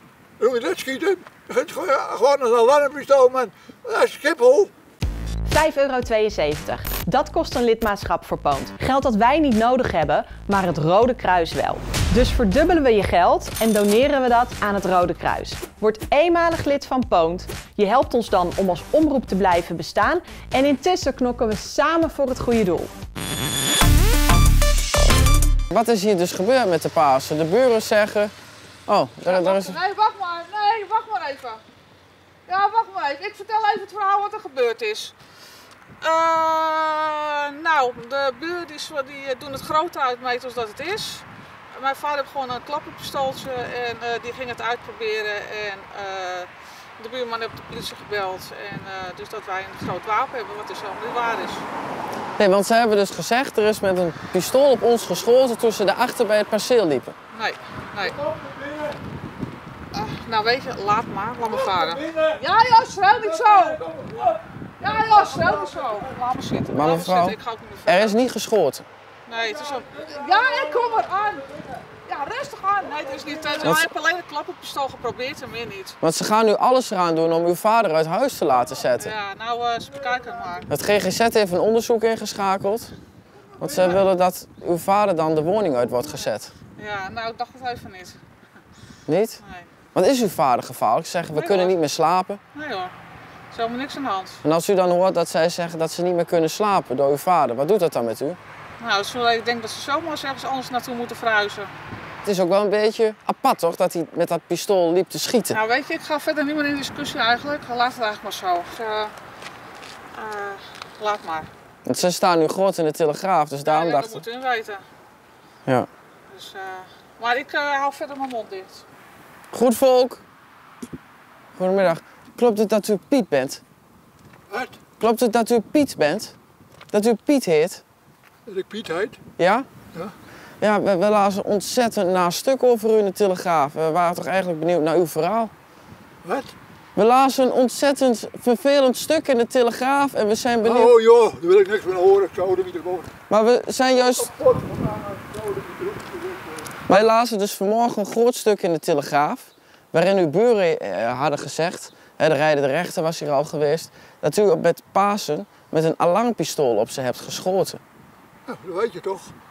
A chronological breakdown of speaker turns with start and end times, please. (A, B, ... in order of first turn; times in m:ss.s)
0:00.4-0:04.7 A
0:05.5-0:22.9 B
0:25.7-0:28.3 C
0:28.9-0:29.8 C
0:29.2-0:31.6 D
0:32.5-0:35.1 D
0:36.0-0:51.7 D
0:52.4-0:57.2 C
0:57.3-0:58.2 D
0:59.9-1:03.9 D
1:04.8-1:08.2 D
1:06.7-1:08.9 C
1:09.3-1:16.0 D
1:16.0-1:19.1 C
1:19.0-1:20.7 D
1:20.7-1:22.9 C
1:23.6-1:26.5 C
1:23.6-1:24.0 D
1:26.8-1:28.2 D
1:29.1-1:29.4 C
1:29.4-1:29.7 D
1:29.9-1:32.4 C
1:31.3-1:31.8 D
1:32.5-1:32.9 D
1:33.5-1:34.4 D
1:34.4-1:38.4 C
1:38.8-1:41.7 D
1:42.2-1:45.6 C
1:45.5-1:49.1 D
1:50.1-1:51.5 D
1:51.9-1:54.2 C
1:53.7-1:54.8 D
1:56.3-1:58.8 D
1:59.5-2:00.2 C
2:01.6-2:03.6 C
2:04.5-2:04.8 A
2:05.0-2:06.4 C
2:06.9-2:07.8 C
2:08.5-2:09.2 A
2:09.4-2:09.7 C
2:10.6-2:15.5 C
2:16.2-2:16.5 A
2:17.0-2:20.9 C
2:20.6-2:23.1 A
2:23.3-2:24.3 C
2:23.9-2:27.1 A
2:26.9-2:37.8 C
2:38.5-2:39.3 A